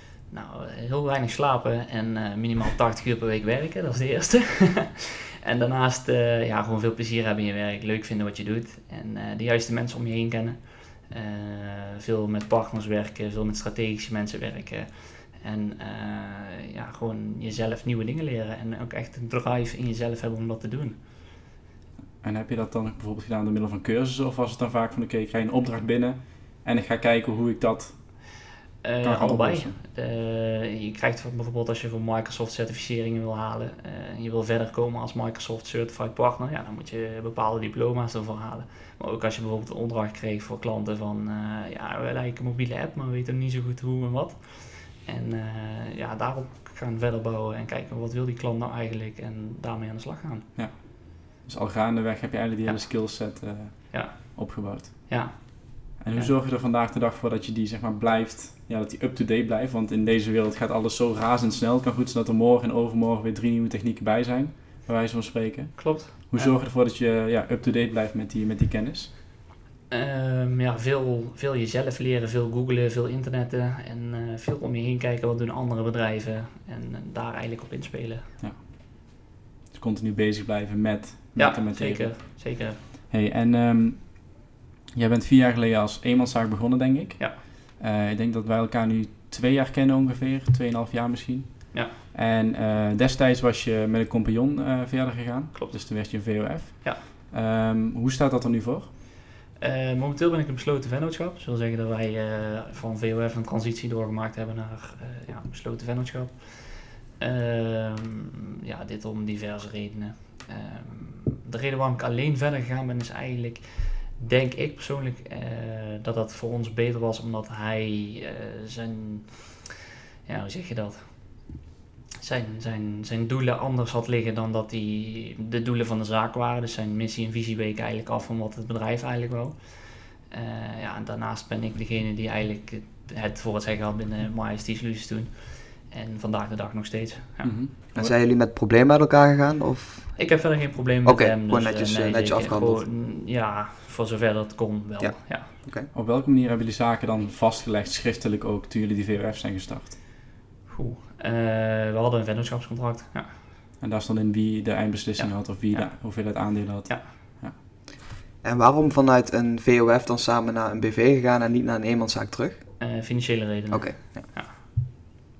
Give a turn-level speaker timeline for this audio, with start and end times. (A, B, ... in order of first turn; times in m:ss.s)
0:00.3-0:21.0 A
0:22.2-0:28.2 B
0:28.8-0:50.5 A
0:29.0-0:29.8 B
0:50.5-0:55.4 B
0:52.6-0:53.3 A
0:53.9-0:56.3 A
0:56.0-1:09.1 B
1:05.8-1:06.5 A
1:09.9-1:18.3 A
1:18.4-1:24.4 B
1:21.4-1:22.8 A
1:24.9-1:38.9 B
1:31.7-1:32.0 A
1:35.5-1:37.0 A
1:39.6-1:59.7 A
2:00.2-2:01.6 A
2:02.2-2:17.5 A
2:17.4-2:18.1 B
2:17.9-2:20.3 C
2:20.2-2:25.5 A
2:21.0-2:22.8 C
2:25.0-2:25.9 C
2:25.9-2:30.0 B
2:30.7-2:33.3 A
2:33.8-2:37.6 B
2:35.2-2:37.1 A
2:38.4-2:42.7 C
2:42.8-2:44.6 A
2:43.7-2:44.3 C